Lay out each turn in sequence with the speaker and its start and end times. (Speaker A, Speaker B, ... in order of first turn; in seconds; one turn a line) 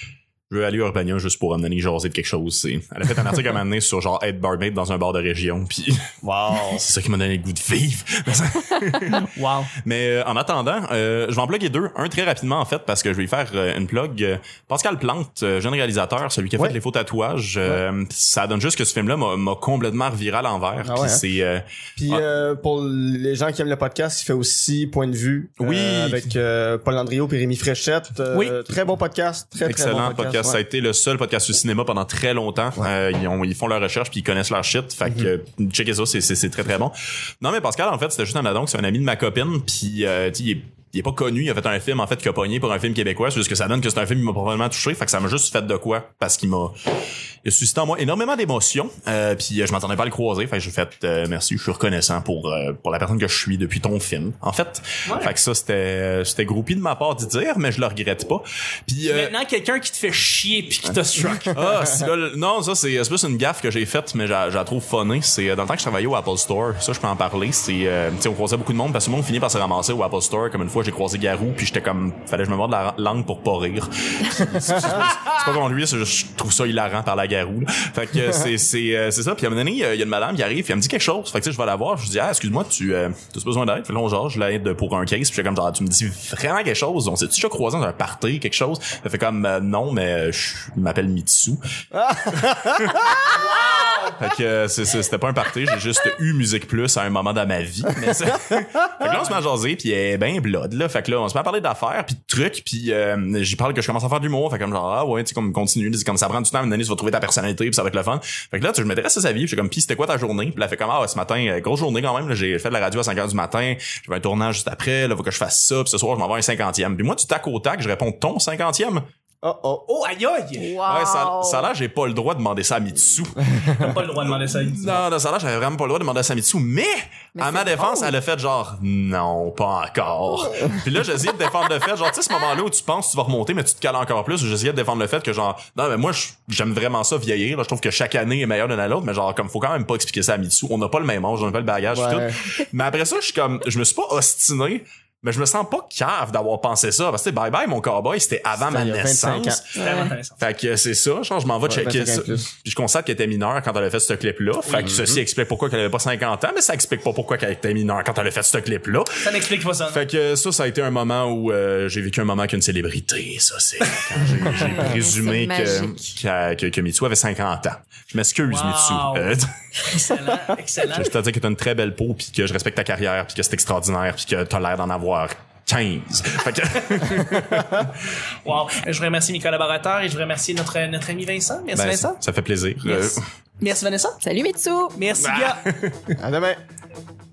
Speaker A: 0.5-6.0
Speaker B: 6.2-6.8
Speaker A: 6.5-9.2
Speaker C: 9.1-9.7
Speaker A: 9.8-22.2
Speaker B: 20.8-21.2
Speaker B: 22.0-30.6
Speaker A: 25.6-26.2
Speaker A: 29.6-46.7
Speaker A: 47.4-59.3
Speaker C: 55.0-55.3
Speaker C: 59.0-61.6
Speaker A: 61.5-91.6
Speaker B: 91.9-93.2
Speaker A: 92.8-93.1
Speaker C: 93.5-94.1
Speaker A: 94.1-119.0
Speaker B: 119.4-119.8
Speaker C: 119.9-120.7
Speaker D: 120.6-121.7
Speaker A: 120.8-123.5
Speaker C: 123.6-125.0
Speaker A: 124.2-149.8
Speaker D: 127.3-128.1
Speaker B: 141.9-142.4
Speaker B: 148.6-149.6
Speaker C: 149.8-150.4
Speaker D: 149.8-150.1
Speaker A: 150.4-159.3
Speaker B: 151.7-152.5
Speaker C: 154.6-155.0
Speaker B: 154.8-155.2
Speaker C: 159.2-160.0
Speaker A: 159.9-169.5
Speaker C: 164.2-164.6
Speaker D: 164.5-166.1
Speaker C: 168.4-171.1
Speaker A: 170.9-178.0
Speaker C: 178.4-182.2
Speaker A: 181.7-183.2
Speaker C: 182.8-184.2
Speaker D: 184.2-185.0
Speaker C: 184.9-185.6
Speaker A: 185.2-186.1
Speaker B: 186.1-186.6